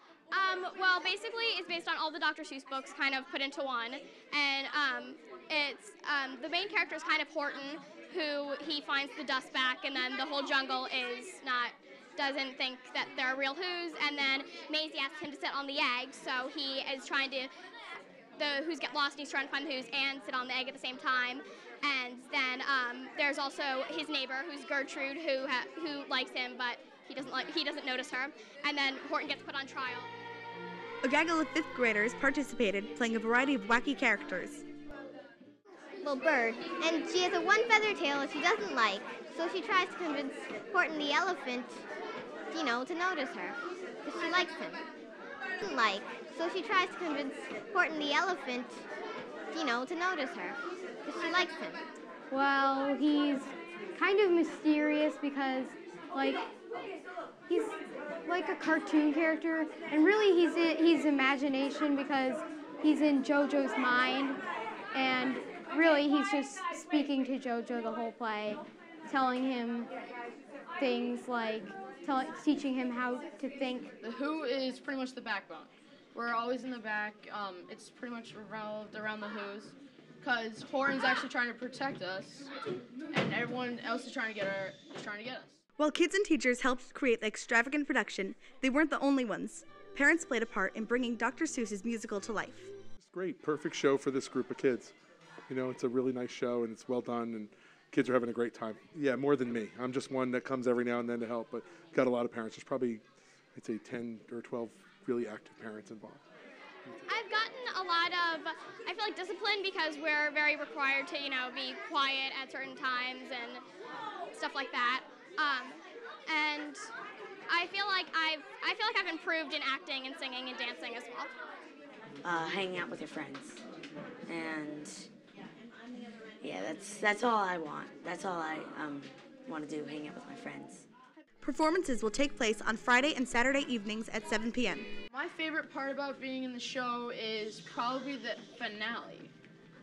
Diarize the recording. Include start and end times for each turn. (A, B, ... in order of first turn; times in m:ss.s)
0:00.3-0:17.5 A
0:18.4-0:30.1 A
0:31.0-0:34.6 B
0:36.0-0:41.8 C
0:42.5-0:44.9 C
0:45.6-0:48.8 C
0:49.5-0:51.8 C
0:52.3-0:56.5 D
0:57.5-1:04.4 D
1:04.9-1:09.9 D
1:10.8-1:13.9 D
1:14.0-1:22.5 E
1:23.1-1:25.6 E
1:25.8-1:32.7 B
1:33.0-1:34.9 F
1:35.5-1:43.0 F
1:43.6-1:46.2 F
1:47.1-1:53.6 A
1:54.3-1:55.8 A
1:56.3-1:56.9 A
1:57.5-2:01.3 A
2:02.2-2:03.6 G
2:04.3-2:05.1 G
2:06.4-2:10.9 G
2:11.4-2:14.9 B
2:15.1-2:19.3 E